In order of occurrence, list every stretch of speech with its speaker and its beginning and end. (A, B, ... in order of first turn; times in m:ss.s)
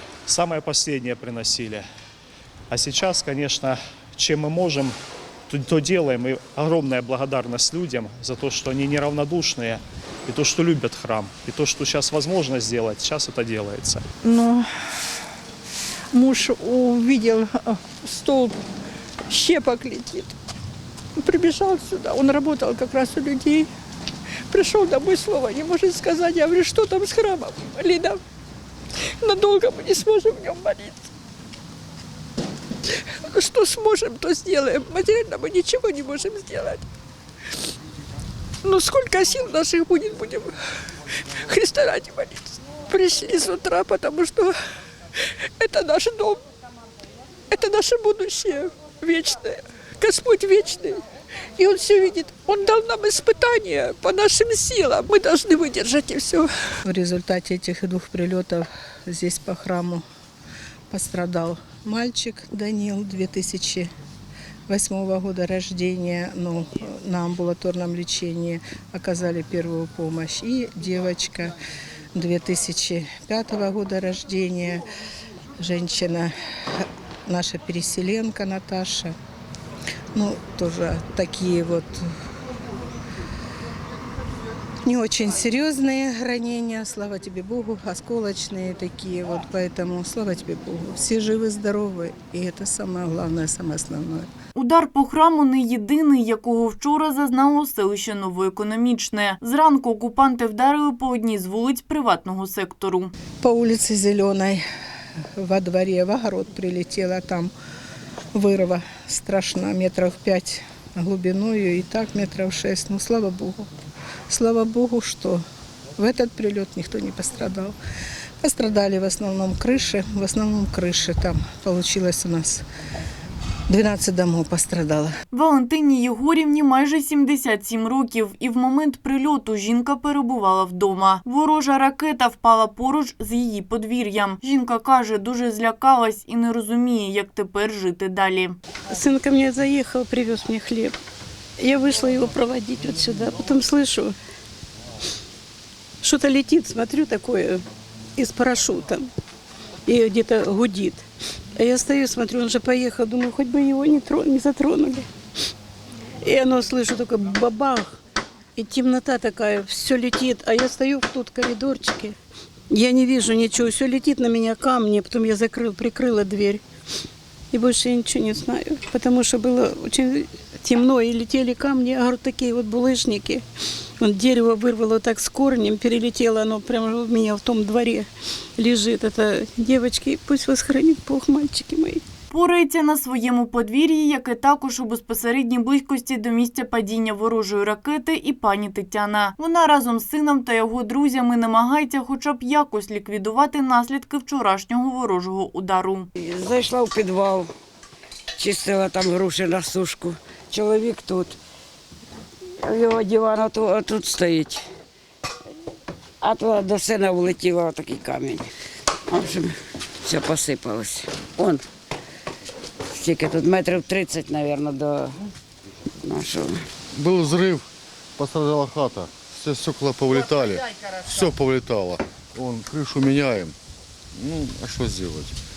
0:00.3-0:01.8 A
0:02.7-0:05.0 A
0:05.5-0:14.1 A
0:14.2-0:14.7 B
0:16.1-0:18.6 B
0:19.3-0:20.3 B
0:21.2-0:23.7 B
0:24.5-0:28.2 B
0:29.2-0:31.0 B
0:33.1-0:36.8 B
0:38.6-0:40.5 B
0:41.3-0:44.5 B
0:45.6-0:46.4 B
0:47.5-0:51.0 B
0:51.6-0:56.5 B
0:56.8-1:00.0 C
1:00.9-1:03.9 C
1:04.7-1:11.6 C
1:12.1-1:14.8 C
1:15.6-1:19.1 C
1:20.1-1:22.1 C
1:24.8-1:34.3 C
1:34.6-1:43.1 D
1:43.4-1:44.6 C
1:45.4-1:47.5 C
1:48.3-1:53.7 C
1:54.3-1:55.4 C
1:56.0-1:57.8 C
1:58.4-2:02.6 C
2:03.7-2:05.1 C
2:05.3-2:18.6 D
2:18.9-2:21.0 E
2:21.6-2:24.2 E
2:26.0-2:27.6 E
2:28.2-2:29.1 E
2:29.9-2:35.1 E
2:36.2-2:38.0 E
2:38.6-2:42.2 E
2:42.7-2:46.6 E
2:47.5-2:53.4 E
2:54.0-3:02.0 E
3:02.3-3:16.1 D
3:16.2-3:17.5 F
3:18.4-3:21.4 F
3:22.6-3:24.7 F
3:26.2-3:28.5 F
3:29.1-3:31.6 F
3:32.9-3:35.2 F
3:36.0-3:36.7 F
3:37.0-3:43.6 G
3:44.2-3:45.4 G